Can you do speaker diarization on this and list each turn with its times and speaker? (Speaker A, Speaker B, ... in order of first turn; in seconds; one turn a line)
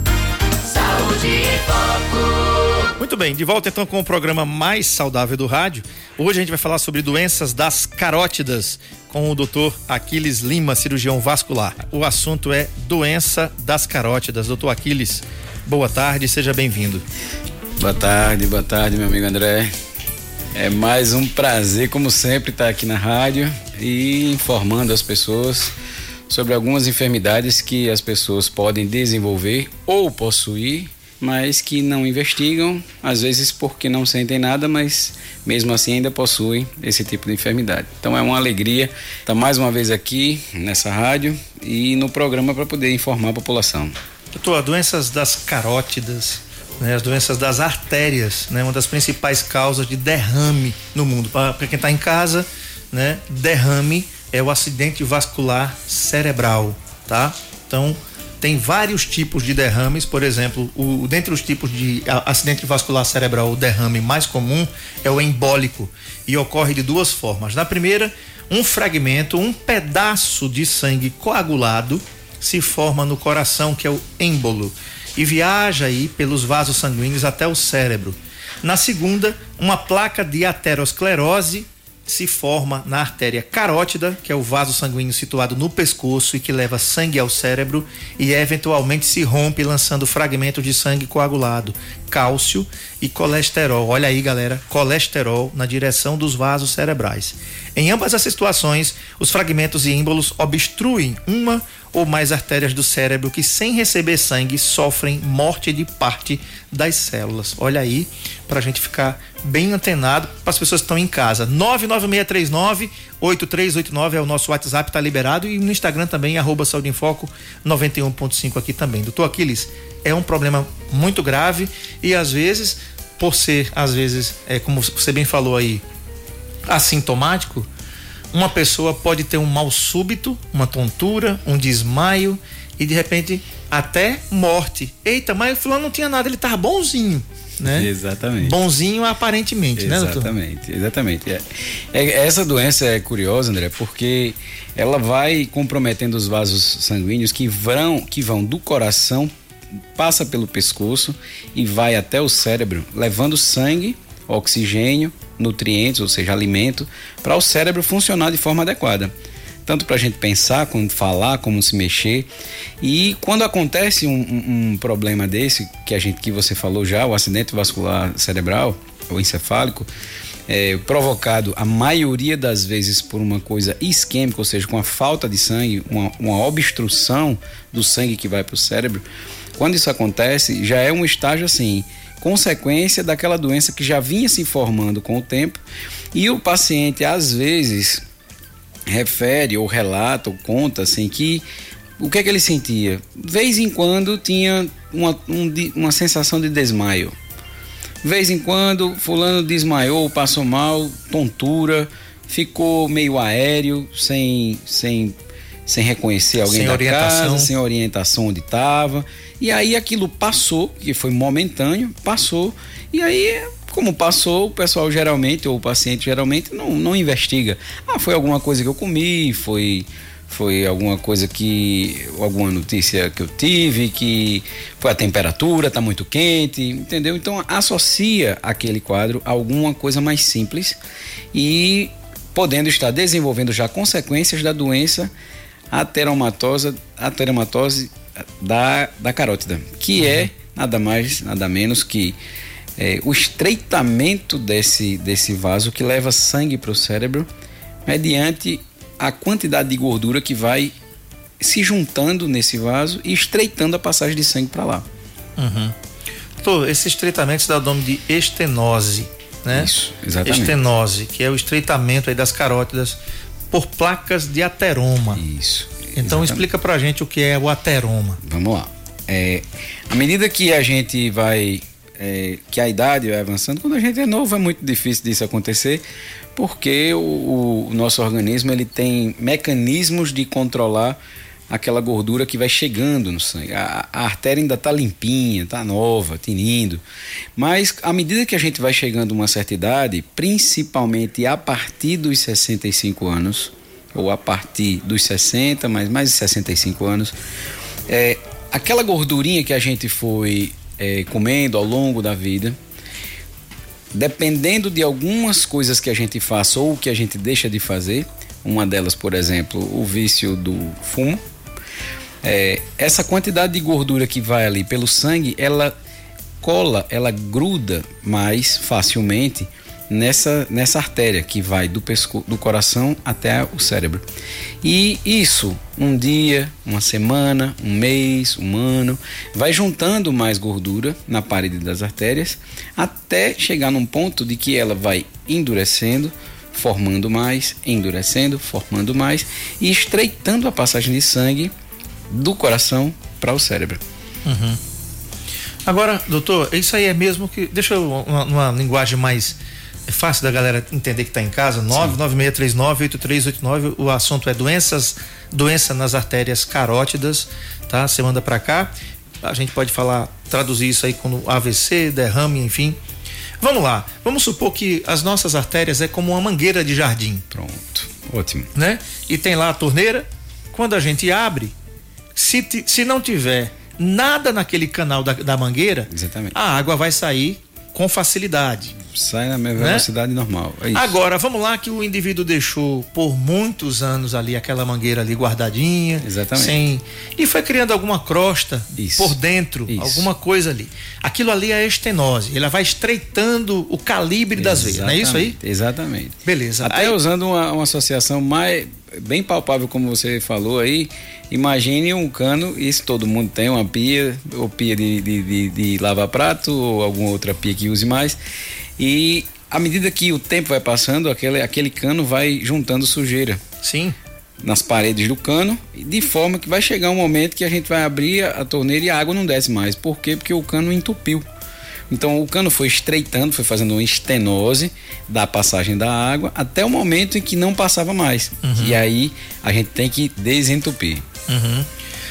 Speaker A: 0.7-2.9
Speaker B: 3.0-17.0
Speaker C: 17.8-19.7
Speaker C: 20.5-25.7
Speaker C: 26.3-44.0
Speaker B: 44.3-125.8
Speaker B: 126.7-127.7
Speaker B: 128.3-140.3
Speaker C: 137.6-138.6
Speaker C: 139.8-149.3
Speaker C: 149.9-159.1
Speaker C: 159.7-162.3
Speaker C: 162.8-169.9
Speaker C: 170.5-179.0
Speaker C: 179.6-185.6
Speaker C: 186.1-188.0
Speaker C: 188.9-191.4
Speaker C: 192.0-197.1
Speaker C: 198.0-205.1
Speaker C: 205.7-230.8
Speaker B: 206.4-207.5
Speaker C: 231.3-235.1
Speaker C: 235.7-242.2
Speaker C: 242.8-247.3
Speaker C: 247.8-250.7
Speaker C: 251.4-254.8
Speaker B: 255.4-255.8
Speaker B: 256.4-259.7
Speaker C: 259.5-260.6
Speaker B: 260.2-263.0
Speaker B: 263.5-265.2
Speaker C: 265.2-266.4
Speaker B: 265.9-268.2
Speaker C: 268.2-275.8
Speaker C: 276.4-281.0
Speaker C: 281.5-286.8
Speaker C: 287.4-297.1
Speaker C: 297.9-302.6
Speaker C: 303.9-311.2
Speaker C: 312.2-315.7
Speaker C: 316.4-324.0
Speaker C: 324.6-341.5
Speaker C: 342.1-343.8
Speaker B: 344.2-344.6
Speaker B: 345.6-362.8
Speaker B: 363.4-367.2
Speaker C: 367.3-368.5
Speaker B: 368.6-371.5
Speaker B: 372.1-378.8
Speaker C: 375.9-376.4
Speaker C: 378.8-380.9
Speaker B: 379.6-379.9
Speaker B: 380.7-395.4
Speaker C: 386.0-386.6
Speaker C: 388.8-389.1
Speaker C: 389.7-390.1
Speaker C: 394.3-408.2
Speaker B: 396.2-396.9
Speaker C: 408.8-413.4
Speaker B: 413.6-413.9
Speaker C: 414.4-421.2
Speaker C: 421.9-431.1
Speaker B: 428.4-428.8
Speaker B: 431.3-431.7